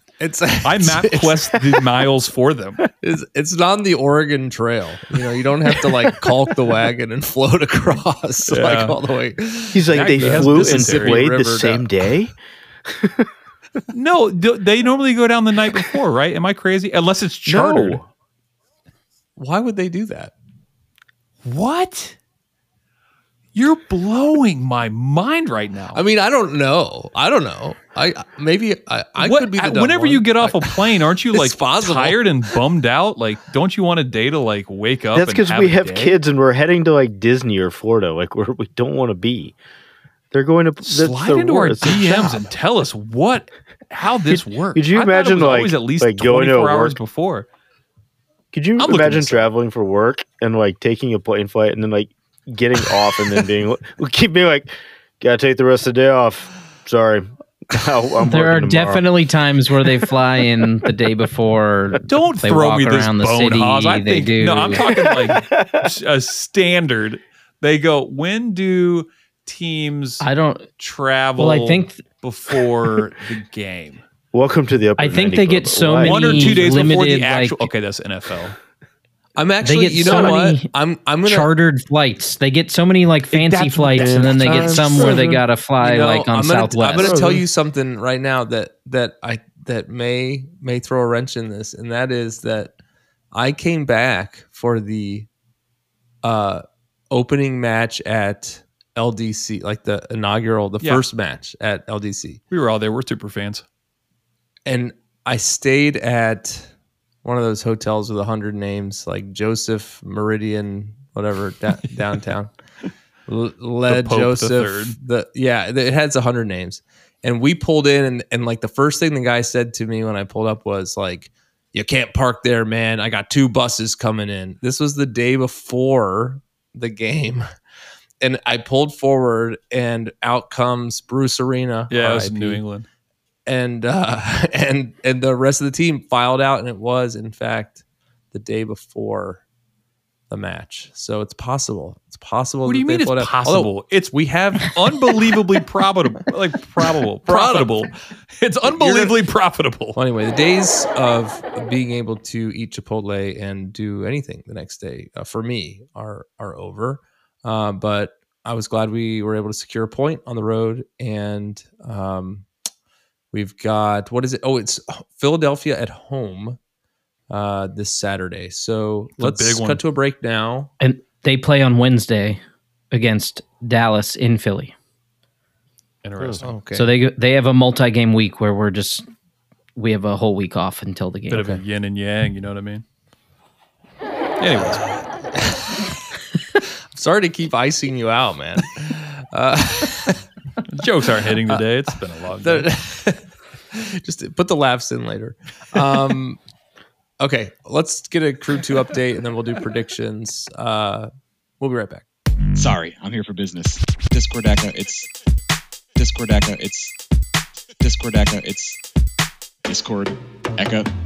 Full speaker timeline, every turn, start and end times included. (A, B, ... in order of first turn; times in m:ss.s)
0:00.2-0:01.8 A
0:00.6-0:02.8 B
0:03.0-0:11.9 A
0:08.5-0:09.0 B
0:09.7-0:13.3 C
0:09.9-0:11.2 B
0:13.9-0:18.0 B
0:17.4-0:18.0 C
0:19.4-0:20.3 A
0:21.4-0:22.2 B
0:23.5-0:26.0 B
0:25.9-0:32.2 A
0:29.2-0:36.2 B
0:35.1-0:39.5 C
0:40.3-0:42.5 C
0:40.8-0:47.5 B
0:44.3-0:47.0 C
0:48.5-0:59.1 C
0:48.8-0:49.5 B
0:58.2-1:04.8 D
1:02.1-1:10.2 B
1:04.8-1:05.9 C
1:10.2-1:10.7 D
1:10.8-1:14.0 B
1:11.4-1:12.0 D
1:14.3-1:17.0 C
1:15.0-1:17.7 D
1:16.0-1:18.6 B
1:19.4-1:21.5 A
1:19.6-1:20.7 D
1:21.2-1:27.2 D
1:23.3-1:25.1 B
1:24.0-1:25.4 C
1:25.8-1:32.8 A
1:27.0-1:27.4 C
1:33.3-1:35.3 A
1:36.2-1:42.4 A
1:40.8-1:41.0 B
1:42.5-1:43.6 B
1:44.6-1:46.7 A
1:47.2-1:52.5 A
1:53.3-2:07.4 A
1:53.9-1:55.0 B
2:08.2-2:12.6 A
2:11.9-2:12.9 B
2:13.4-2:19.4 A
2:20.3-2:23.7 A
2:22.6-2:30.0 B
2:27.3-2:27.7 A
2:28.7-2:29.2 A
2:29.9-2:42.5 A
2:43.3-2:46.6 A
2:47.3-2:50.7 A
2:49.2-2:49.8 B
2:50.8-2:54.7 D
2:56.0-2:56.5 B
2:56.4-2:56.9 A
2:56.7-2:59.0 D
2:59.8-3:01.5 D
3:01.3-3:02.8 B
3:04.4-3:04.8 B
3:04.7-3:05.8 A
3:06.6-3:10.2 A
3:10.7-3:12.7 B
3:11.2-3:11.6 A
3:12.4-3:16.4 A
3:17.2-3:22.0 A
3:22.5-3:25.1 E
3:26.0-3:26.9 E
3:27.8-3:28.8 E
3:29.6-3:30.9 E